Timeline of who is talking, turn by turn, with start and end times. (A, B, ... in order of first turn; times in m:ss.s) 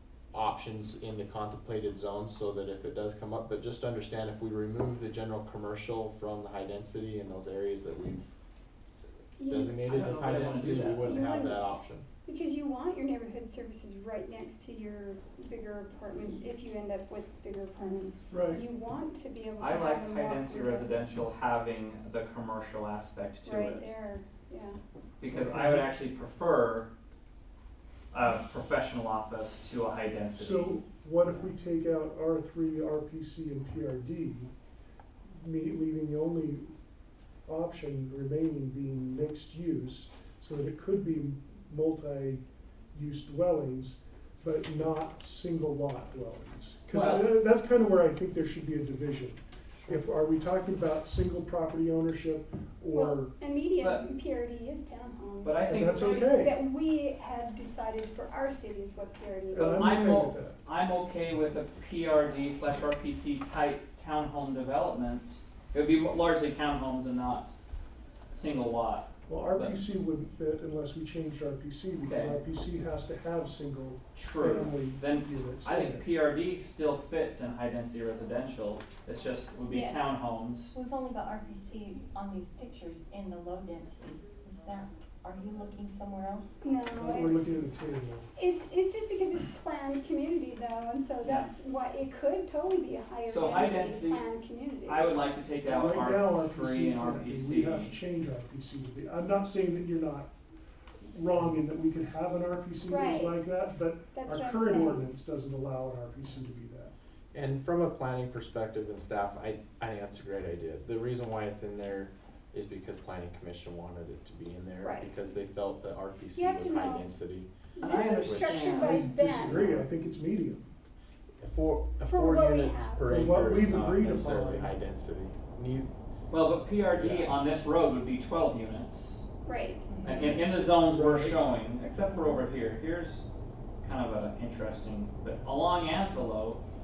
0:00.3-0:08.2 A
0:09.4-0:09.8 B
0:09.4-0:12.0 A
0:09.8-0:11.1 C
0:10.9-0:11.7 B
0:12.2-0:21.0 B
0:18.3-0:18.6 D
0:19.6-0:23.9 C
0:23.4-0:24.8 B
0:25.2-0:26.9 C
0:25.3-0:25.9 D
0:28.1-0:30.8 C
0:30.3-0:34.5 D
0:35.3-0:36.7 D
0:37.4-0:53.3 D
0:46.9-0:47.4 C
0:52.9-0:55.7 B
0:53.8-0:54.1 C
0:55.4-0:56.5 C
0:55.7-0:56.6 D
0:56.3-0:59.9 B
0:59.5-1:00.6 D
0:59.7-1:07.5 C
1:08.3-1:09.8 C
1:09.3-1:16.1 D
1:12.0-1:12.4 C
1:14.2-1:20.7 C
1:19.7-1:20.2 B
1:20.7-1:26.6 E
1:26.6-1:27.6 B
1:26.9-1:28.3 D
1:28.4-1:35.2 B
1:31.2-1:31.5 C
1:33.3-1:34.2 C
1:34.8-1:38.0 C
1:35.6-1:40.3 D
1:41.0-1:46.9 D
1:42.9-1:43.4 B
1:44.1-1:45.0 B
1:47.3-1:57.5 A
1:54.8-1:55.1 B
1:56.3-1:57.1 B
1:57.8-1:59.7 B
1:57.8-1:59.1 C
1:58.1-1:58.7 A
1:58.7-2:00.6 D
2:01.4-2:05.9 A
2:02.0-2:03.1 B
2:03.1-2:04.7 D
2:06.3-2:09.2 C
2:07.0-2:07.4 A
2:09.4-2:09.8 B
2:09.9-2:10.4 E
2:10.0-2:13.2 C
2:10.9-2:11.5 D
2:13.8-2:16.6 C